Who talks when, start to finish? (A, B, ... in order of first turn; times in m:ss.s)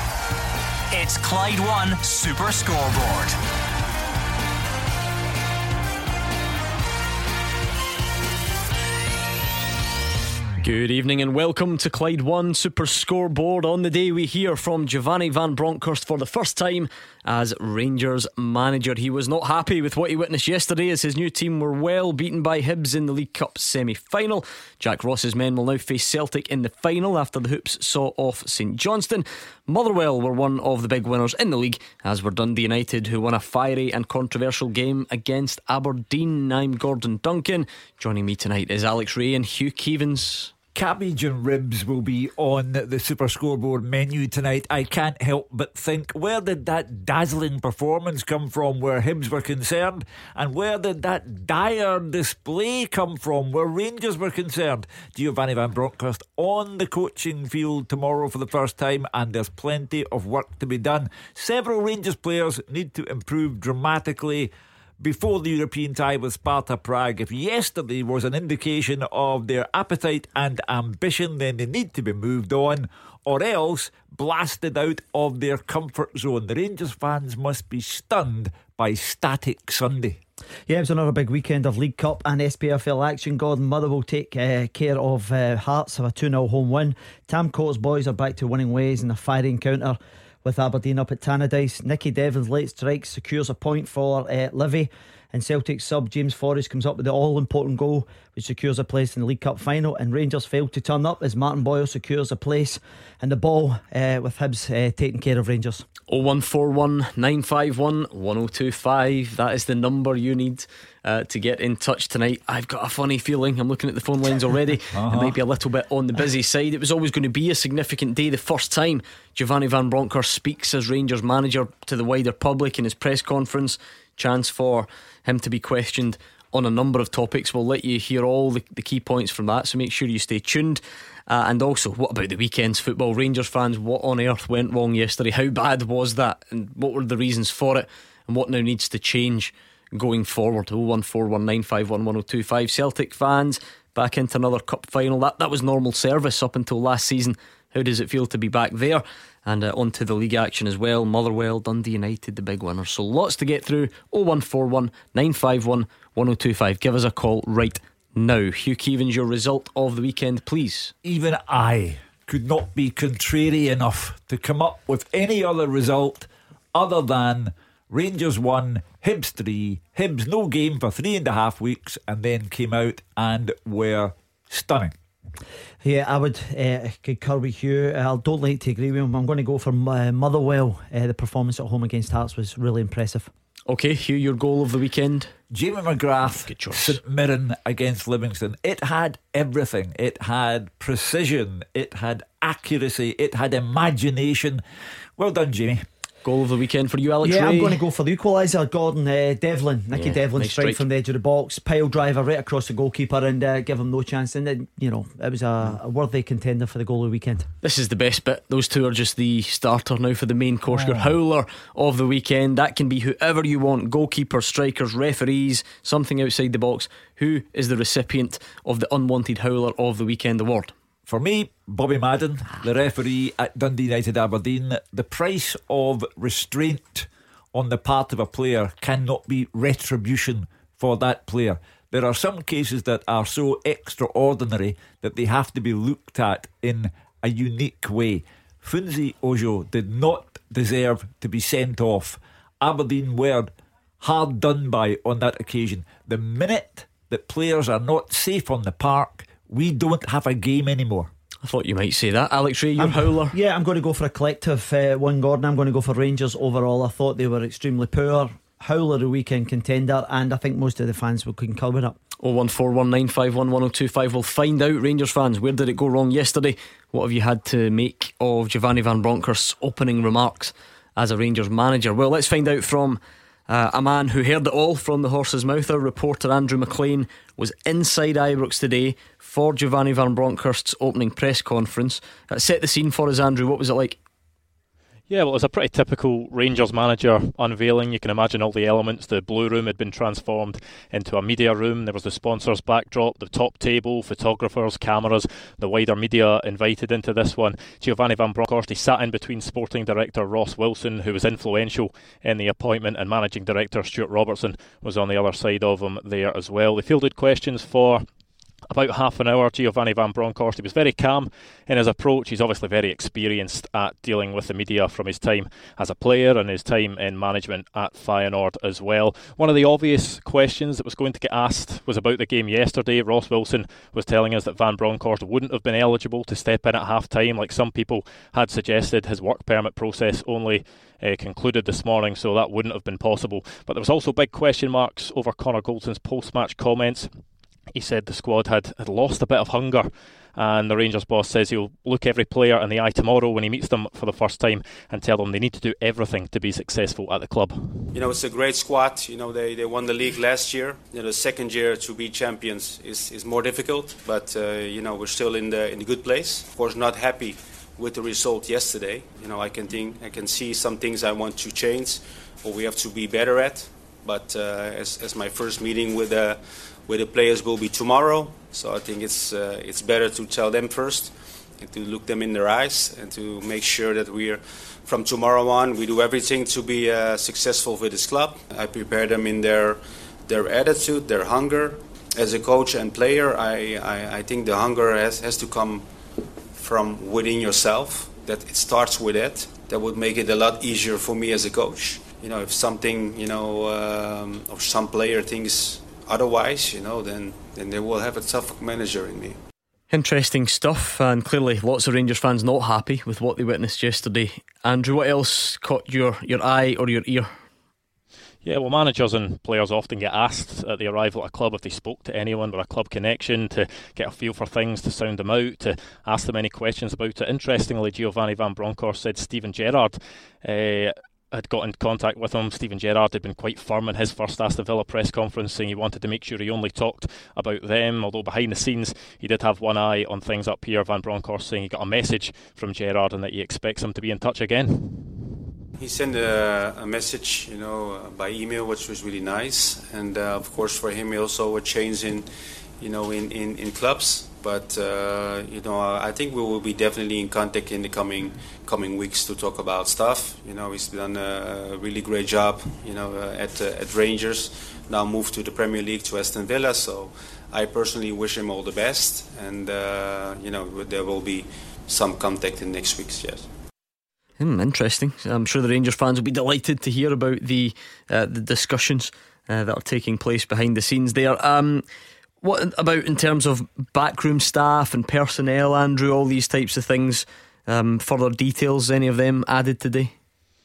0:00.9-0:03.4 A
0:10.6-0:40.5 B
0:40.7-1:20.2 C
1:20.7-1:45.8 D
1:46.1-2:40.9 B
1:54.9-1:55.4 C
2:41.0-2:54.9 C
2:55.8-3:03.3 D
3:03.7-3:05.3 B
3:05.5-3:14.6 C
3:06.4-3:07.0 B
3:15.2-3:15.8 C
3:16.2-3:17.8 B
3:17.2-3:27.5 D
3:19.9-3:20.8 B
3:27.6-3:40.7 B
3:30.7-3:31.1 C
3:41.1-4:11.1 C
4:11.4-4:13.3 B
4:12.8-4:22.0 D
4:22.2-4:44.0 B
4:45.1-5:08.0 E
5:08.7-5:47.9 E
5:47.9-6:25.9 F
6:26.5-6:39.4 F
6:39.9-6:47.3 B
6:48.4-7:15.2 E
7:15.8-7:43.5 F
7:44.4-7:51.8 B
7:52.4-8:00.1 B